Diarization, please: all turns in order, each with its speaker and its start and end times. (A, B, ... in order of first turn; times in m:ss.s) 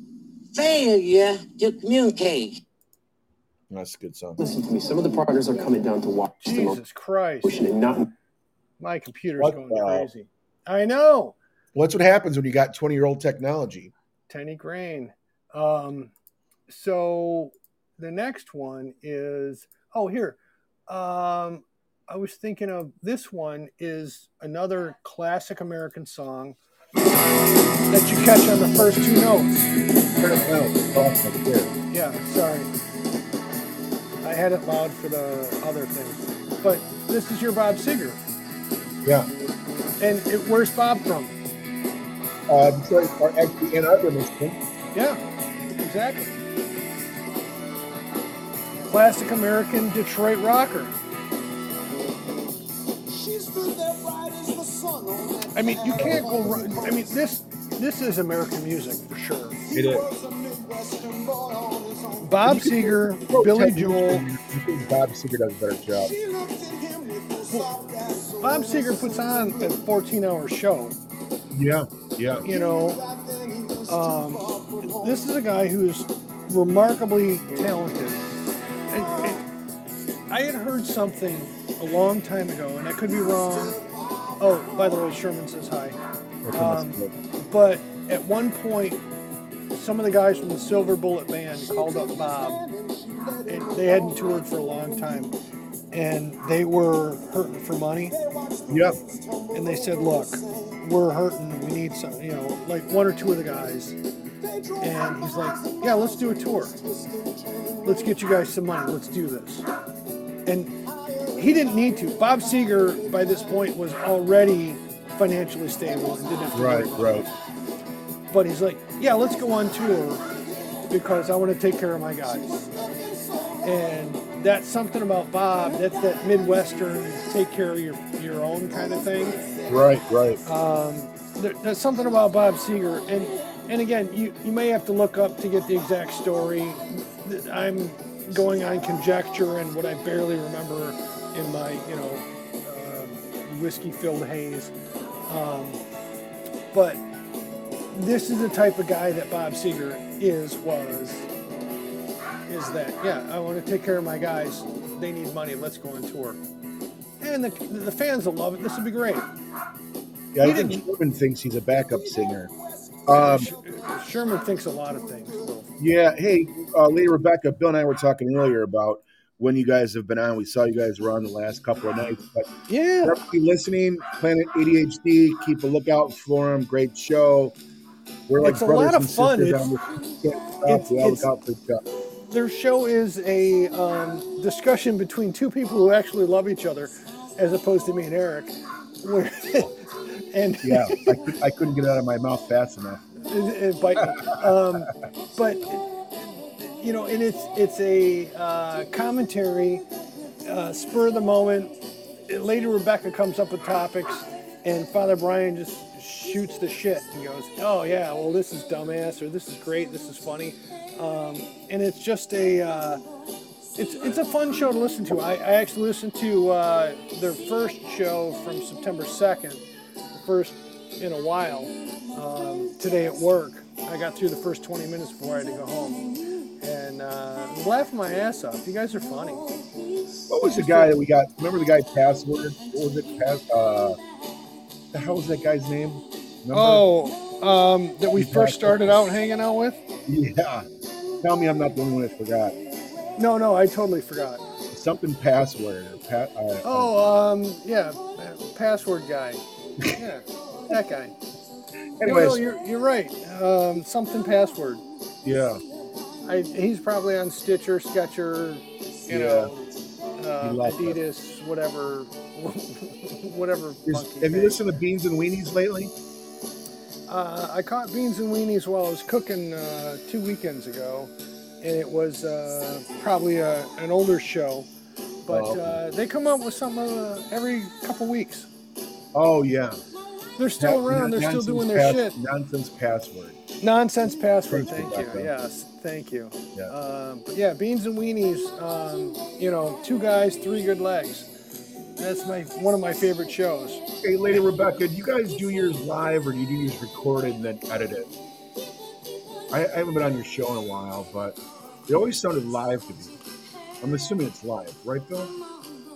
0:00.5-0:02.6 A
0:03.7-0:04.4 B
0:04.4-0:06.8 C
0:06.4-0:07.6 D
0:07.4-0:08.1 C
0:08.8-0:11.4 D
0:09.4-0:10.1 B
0:11.8-0:13.9 B
0:14.3-0:16.1 D
0:16.7-0:26.6 D
0:27.9-0:29.7 D
0:30.2-0:31.7 B
0:31.9-0:32.7 D
0:34.2-0:38.2 D
0:40.0-0:41.4 D
0:42.5-0:44.6 B
0:44.9-0:45.2 D
0:45.7-0:46.4 D
0:48.9-0:51.0 D
0:55.5-0:59.6 D
0:55.9-0:56.8 B
0:59.7-1:00.1 B
1:02.2-1:04.2 D
1:02.4-1:06.2 B
1:08.4-1:11.0 D
1:11.5-1:12.5 B
1:12.4-1:13.1 D
1:13.9-1:18.2 D
1:18.9-1:19.5 D
1:20.3-1:23.8 D
1:24.4-1:26.0 D
1:26.4-1:27.1 B
1:26.5-1:29.0 D
1:29.7-1:32.7 D
1:33.4-1:35.3 D
1:35.9-1:38.2 D
1:38.7-1:39.0 B
1:39.5-1:44.0 D
1:44.8-1:46.8 D
1:47.8-1:49.7 D
1:50.5-1:57.4 D
1:56.5-1:57.3 B
1:58.3-2:00.3 D
2:00.9-2:02.7 D
2:03.6-2:09.5 D
2:09.7-2:10.4 B
2:10.4-2:24.7 D
2:25.3-2:25.8 D
2:26.7-2:27.0 D
2:27.9-2:31.3 D
2:32.5-2:36.4 D
2:37.2-2:39.3 D
2:40.3-2:42.5 B
2:40.4-2:40.8 D
2:43.1-2:43.5 B
2:43.1-2:45.7 D
2:45.8-2:52.5 B
2:52.7-2:53.2 D
2:53.0-2:57.6 B
2:58.3-3:01.8 B
2:58.4-2:59.7 D
3:00.6-3:01.3 D
3:02.3-3:11.3 D
3:10.6-3:13.1 B
3:13.3-3:15.9 D
3:14.0-3:14.4 B
3:16.8-3:19.8 D
3:20.4-3:33.0 D
3:33.8-3:46.1 D
3:46.6-3:49.5 D
3:50.3-3:54.0 B
3:50.3-3:51.0 D
3:54.9-3:56.9 B
3:56.5-3:59.8 D
3:58.1-3:59.0 B
4:00.1-4:00.7 B
4:01.2-4:02.6 B
4:03.2-4:04.4 D
4:04.7-4:07.1 B
4:06.6-4:11.2 D
4:12.0-4:12.5 B
4:12.0-4:14.8 D
4:15.2-4:15.6 B
4:16.2-4:24.6 D
4:19.1-4:19.5 B
4:20.4-4:21.0 B
4:23.9-4:25.9 B
4:27.1-4:34.7 D
4:35.3-4:38.5 D
4:35.3-4:35.8 B
4:39.1-4:39.8 B
4:40.4-4:42.2 D
4:40.6-4:43.4 B
4:43.6-4:51.3 D
4:44.5-4:45.3 B
4:52.0-4:53.8 D
4:54.0-4:58.1 B
4:59.5-5:03.2 B
5:03.8-5:05.4 B